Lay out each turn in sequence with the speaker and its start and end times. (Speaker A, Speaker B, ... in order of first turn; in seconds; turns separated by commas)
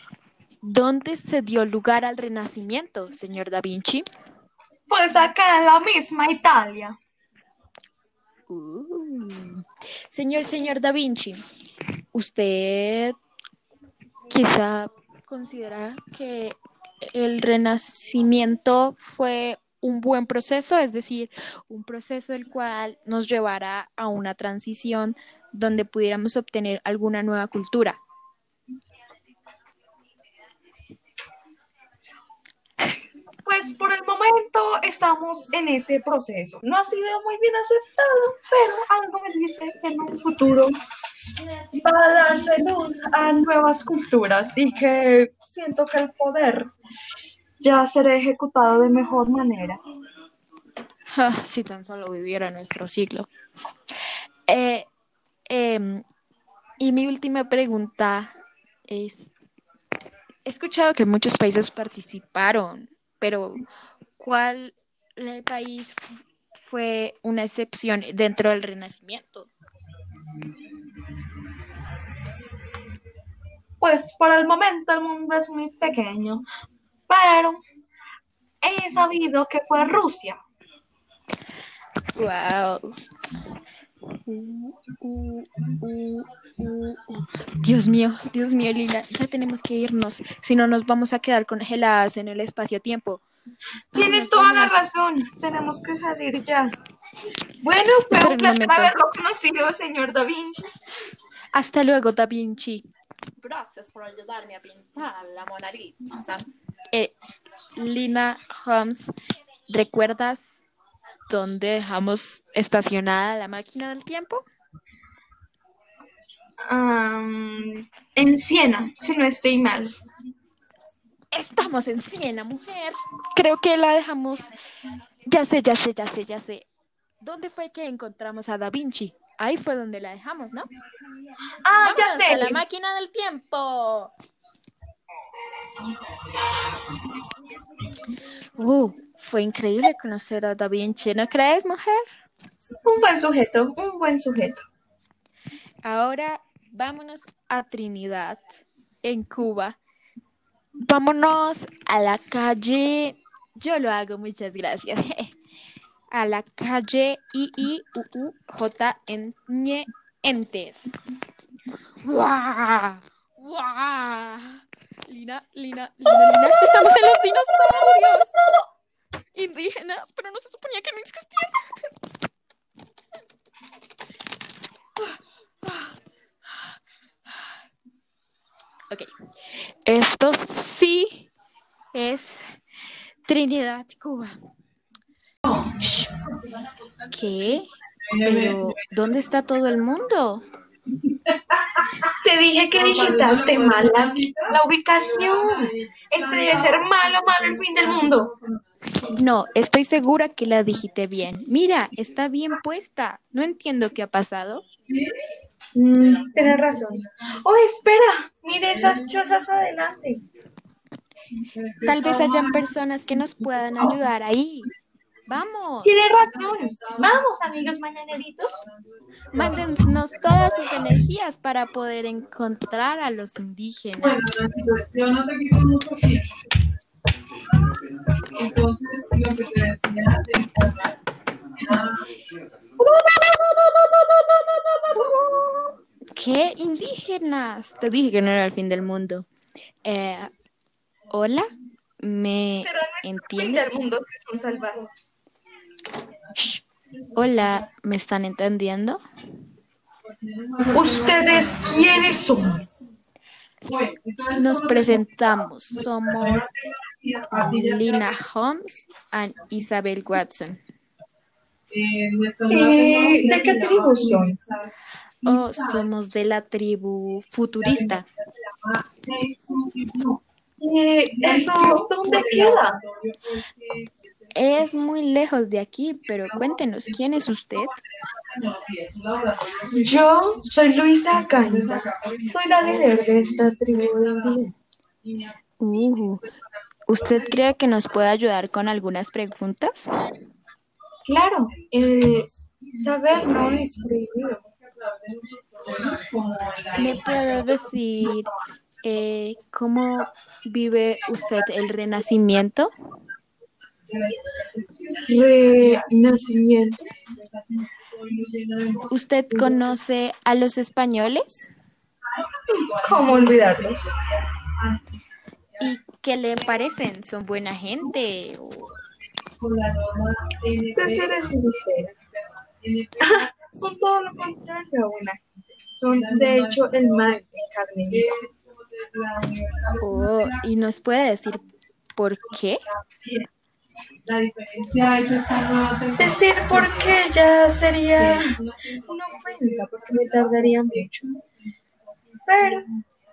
Speaker A: 0.6-4.0, Speaker B: 4.9-7.0, Speaker A: 8.5-11.4, Speaker A: 12.1-13.1, Speaker A: 14.3-28.0, Speaker B: 33.5-40.7, Speaker B: 41.7-46.7, Speaker B: 47.6-49.8, Speaker A: 51.1-53.3, Speaker A: 54.5-54.9, Speaker A: 55.5-56.0, Speaker A: 56.8-58.3, Speaker A: 58.9-59.3, Speaker A: 60.4-63.6, Speaker A: 64.2-66.0, Speaker A: 66.6-69.5, Speaker B: 73.8-76.5, Speaker B: 77.1-77.6, Speaker B: 78.6-80.4, Speaker A: 82.2-82.9, Speaker A: 84.2-93.2, Speaker A: 93.9-94.8, Speaker B: 93.9-96.7, Speaker B: 97.6-100.6, Speaker A: 98.1-98.9, Speaker A: 101.5-102.8, Speaker A: 103.4-107.1, Speaker A: 107.8-109.1, Speaker A: 109.7-110.5, Speaker A: 111.3-114.4, Speaker B: 116.7-119.9, Speaker A: 121.3-124.5, Speaker A: 125.3-126.6, Speaker A: 127.2-130.7, Speaker B: 131.6-132.6, Speaker A: 131.8-134.1, Speaker A: 138.6-142.0, Speaker B: 142.8-144.6, Speaker A: 145.8-149.8, Speaker A: 150.8-155.3, Speaker A: 156.1-160.7, Speaker A: 162.0-168.4, Speaker B: 168.3-168.6, Speaker A: 169.3-171.5, Speaker A: 175.6-175.9, Speaker A: 179.8-181.3, Speaker A: 181.9-182.4, Speaker A: 183.2-184.3, Speaker A: 185.7-186.1, Speaker A: 187.1-190.4, Speaker C: 188.1-188.8, Speaker B: 192.2-198.3, Speaker C: 192.7-199.2, Speaker A: 199.2-204.7, Speaker B: 205.7-210.2, Speaker C: 205.9-207.3, Speaker C: 208.7-209.3, Speaker C: 211.5-212.7, Speaker A: 211.9-214.7, Speaker C: 213.7-214.0, Speaker A: 215.3-216.0, Speaker B: 215.8-218.6, Speaker C: 216.1-217.7, Speaker C: 218.5-220.1, Speaker A: 219.3-224.4, Speaker C: 224.0-226.4, Speaker C: 228.3-230.9, Speaker C: 231.6-232.1, Speaker B: 232.8-235.4, Speaker A: 236.1-239.3, Speaker A: 239.8-240.3, Speaker A: 241.1-241.4, Speaker A: 242.0-243.7, Speaker B: 242.6-244.9, Speaker A: 247.1-249.0, Speaker C: 250.1-252.4, Speaker B: 250.7-252.7, Speaker C: 253.7-258.2, Speaker A: 254.3-256.5, Speaker A: 257.3-260.6, Speaker C: 261.7-264.7, Speaker B: 262.5-264.4, Speaker C: 265.2-265.9, Speaker A: 265.2-268.0, Speaker C: 267.6-270.2, Speaker B: 270.6-272.8, Speaker C: 271.1-274.6, Speaker A: 274.3-277.8, Speaker C: 276.2-280.0, Speaker B: 279.8-284.5, Speaker C: 281.1-284.4, Speaker C: 285.0-286.2, Speaker A: 285.6-286.2, Speaker A: 286.9-289.9, Speaker C: 286.9-287.4, Speaker B: 291.0-294.4, Speaker C: 291.6-297.6, Speaker A: 296.8-298.3, Speaker A: 298.8-302.7, Speaker C: 303.9-309.7, Speaker B: 305.1-306.9, Speaker A: 308.9-311.5, Speaker C: 312.5-313.9, Speaker B: 312.5-313.8, Speaker C: 314.6-315.0, Speaker A: 315.6-318.7, Speaker C: 319.3-321.5, Speaker B: 320.8-321.9, Speaker C: 322.4-323.4, Speaker B: 323.0-328.2, Speaker C: 325.9-327.2, Speaker C: 327.9-330.5, Speaker A: 329.8-331.4, Speaker A: 331.9-332.6, Speaker C: 332.7-333.3, Speaker C: 334.1-337.1, Speaker B: 336.0-338.3, Speaker C: 337.9-341.2, Speaker B: 338.9-341.1, Speaker C: 341.9-342.8, Speaker B: 342.3-342.7